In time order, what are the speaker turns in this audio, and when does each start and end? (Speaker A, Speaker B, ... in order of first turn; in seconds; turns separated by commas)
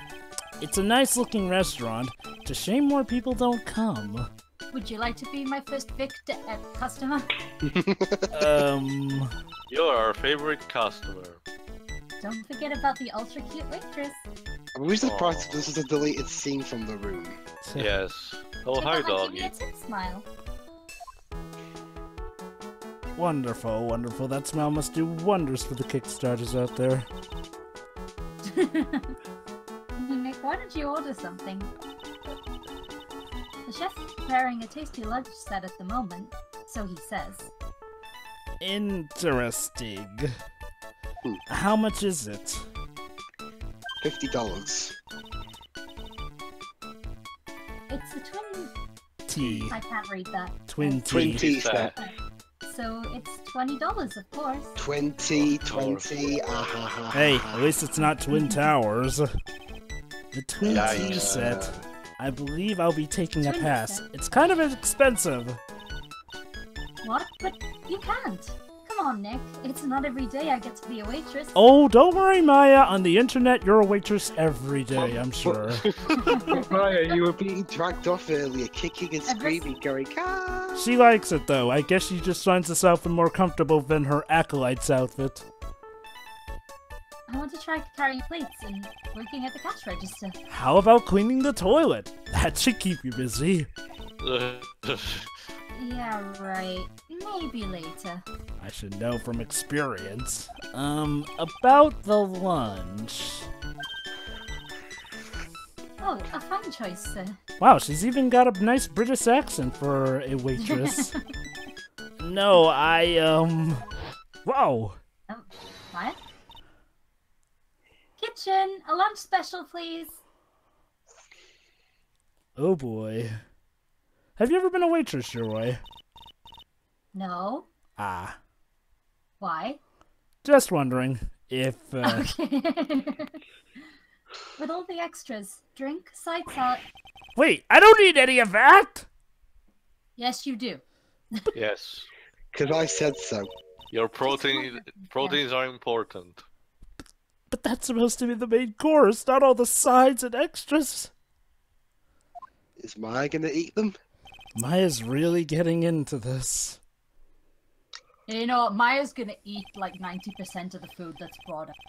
Speaker A: 0.6-4.3, Speaker B: 4.7-7.3, Speaker C: 7.6-8.3, Speaker A: 8.3-9.3, Speaker D: 9.7-11.4, Speaker B: 12.2-14.2, Speaker C: 14.7-17.4, Speaker D: 15.0-15.7, Speaker D: 17.8-19.5, Speaker B: 18.7-20.2, Speaker A: 23.1-27.1, Speaker B: 28.4-29.1, Speaker B: 30.0-31.7, Speaker B: 33.6-37.5, Speaker A: 38.6-40.3, Speaker A: 41.5-42.6, Speaker C: 44.0-44.9, Speaker B: 47.9-48.7, Speaker A: 49.3-49.8, Speaker D: 49.4-49.7, Speaker B: 49.7-51.3, Speaker A: 50.7-51.4, Speaker C: 51.1-51.9, Speaker D: 51.1-51.9, Speaker B: 51.9-54.7, Speaker C: 54.8-57.7, Speaker D: 55.3-56.7, Speaker A: 57.1-59.3, Speaker B: 58.3-58.6, Speaker A: 60.3-65.6, Speaker C: 60.6-61.8, Speaker D: 60.7-61.6, Speaker B: 63.4-64.0, Speaker B: 67.0-71.5, Speaker A: 71.5-75.8, Speaker C: 75.0-80.9, Speaker D: 75.8-76.4, Speaker B: 76.1-76.8, Speaker B: 79.2-79.7, Speaker A: 80.7-85.4, Speaker B: 87.3-90.4, Speaker A: 90.5-93.7, Speaker D: 94.2-95.3, Speaker B: 95.7-98.2, Speaker A: 98.6-103.5, Speaker B: 106.0-107.4, Speaker A: 107.6-111.1, Speaker B: 110.6-111.2, Speaker A: 112.2-113.8, Speaker A: 114.4-115.0, Speaker B: 115.3-116.2, Speaker B: 118.2-120.2, Speaker A: 122.5-123.4, Speaker A: 124.4-125.8, Speaker B: 127.1-127.7, Speaker A: 128.0-128.4, Speaker B: 129.4-129.8, Speaker A: 130.4-132.3, Speaker B: 132.0-133.4, Speaker B: 134.6-136.8, Speaker A: 137.3-139.1, Speaker B: 140.2-140.8, Speaker D: 141.5-142.1, Speaker C: 142.5-143.5, Speaker D: 143.9-146.4, Speaker B: 144.2-145.4, Speaker A: 147.5-151.1, Speaker C: 152.8-153.9, Speaker A: 154.5-156.8, Speaker B: 158.3-161.7